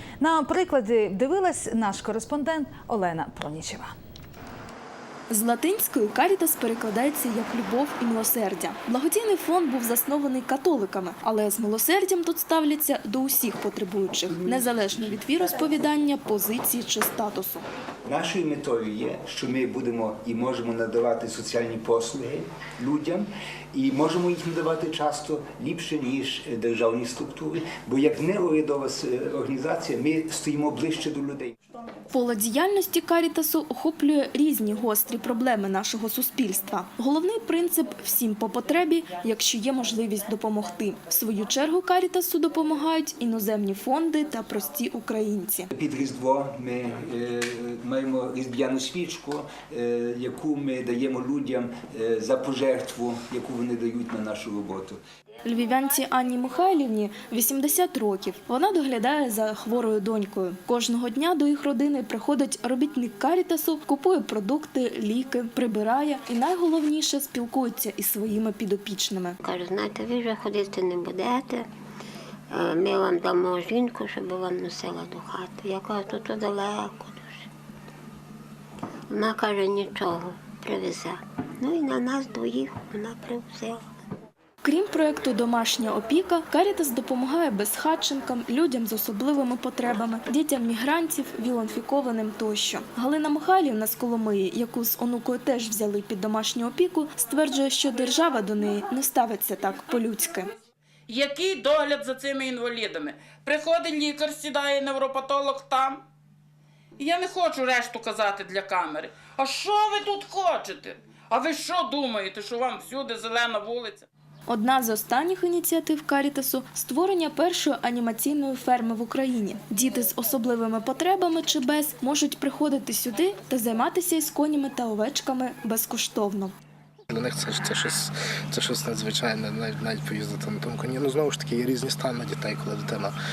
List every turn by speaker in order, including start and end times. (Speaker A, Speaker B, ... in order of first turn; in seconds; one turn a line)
Speaker A: 0.2-3.9
Speaker B: 5.3-17.6
Speaker C: 18.0-31.5
Speaker B: 32.1-45.7
Speaker C: 45.7-55.0
Speaker B: 55.4-69.4
Speaker D: 69.4-71.7
Speaker D: 72.5-77.4
Speaker D: 79.1-83.8
Speaker B: 84.6-100.5
Speaker E: 101.1-106.0
Speaker E: 107.0-114.0
Speaker B: 114.5-126.5
Speaker F: 127.1-133.1